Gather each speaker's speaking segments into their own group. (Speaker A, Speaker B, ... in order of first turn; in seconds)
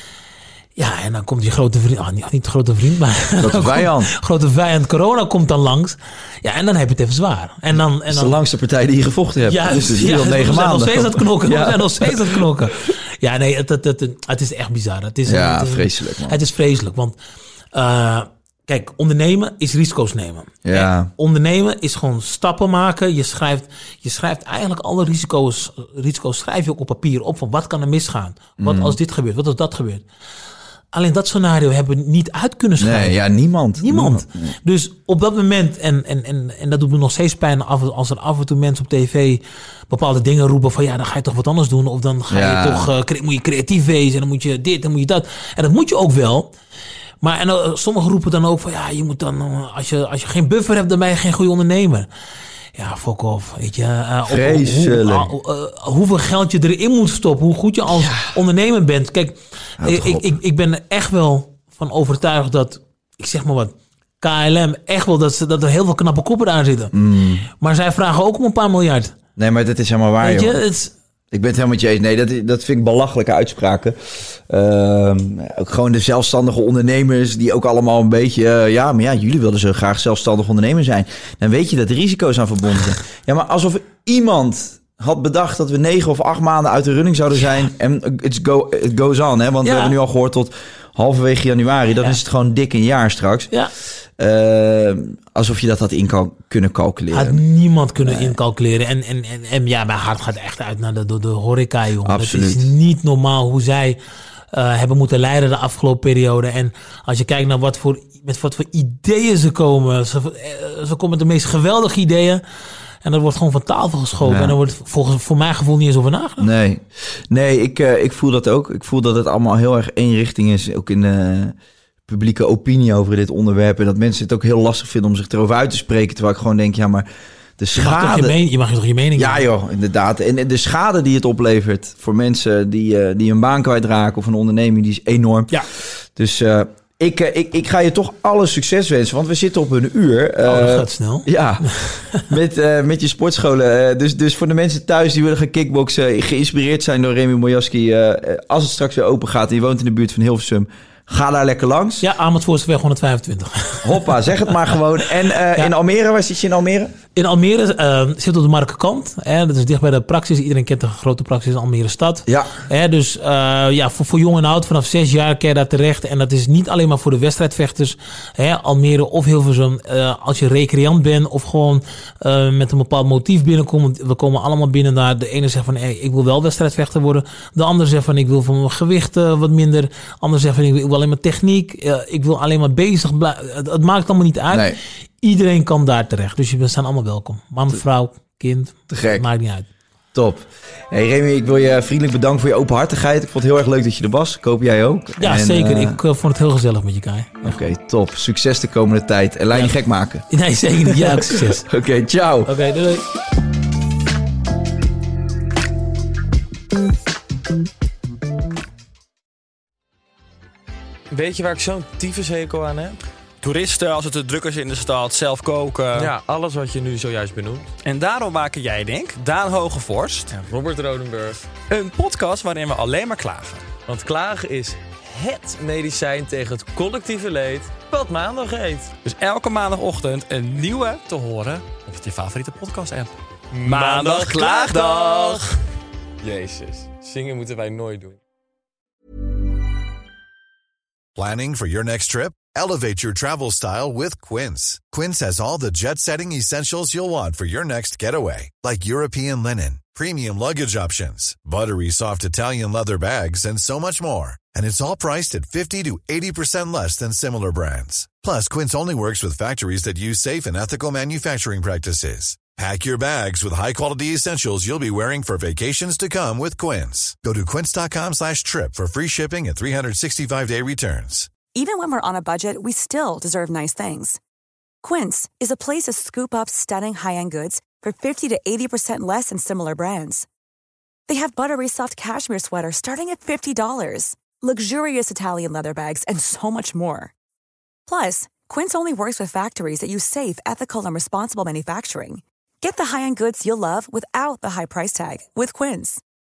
Speaker A: 0.8-8.3, 9.4-17.1, 17.7-30.0, 30.9-33.1, 33.8-46.5, 47.2-52.1, 52.7-66.9, 67.5-69.1, 70.2-70.9, 89.6-90.0, 97.1-104.0, 104.5-112.4, 113.0-116.5, 127.7-129.4, 140.4-142.3, 152.0-154.7, 157.1-189.7, 195.2-197.6, 200.3-201.7, 202.4-203.0
Speaker B: 3.4-4.1, 8.1-12.7, 15.2-16.4, 20.6-21.1, 28.6-29.0, 32.8-34.5, 42.3-42.9, 54.3-55.3, 58.0-58.3, 59.8-60.4, 66.9-67.4, 69.4-70.6, 71.3-93.5, 94.2-97.4, 98.0-98.4, 102.0-102.7, 114.2-114.5, 116.4-121.5, 122.1-127.1, 127.6-128.3, 129.2-152.0, 153.8-156.9, 162.2-162.6, 184.5-184.8, 188.9-189.2, 190.1-196.0, 197.4-200.2, 200.9-202.5
Speaker C: 211.1-213.0, 215.9-217.7, 220.3-221.4, 223.8-229.0, 233.5-235.4, 236.2-238.2
Speaker D: 213.4-216.1, 217.8-220.4, 221.7-223.7, 229.0-235.4
Speaker E: 241.2-271.3
Speaker F: 271.5-274.2, 274.8-280.2, 281.1-287.1, 287.9-296.0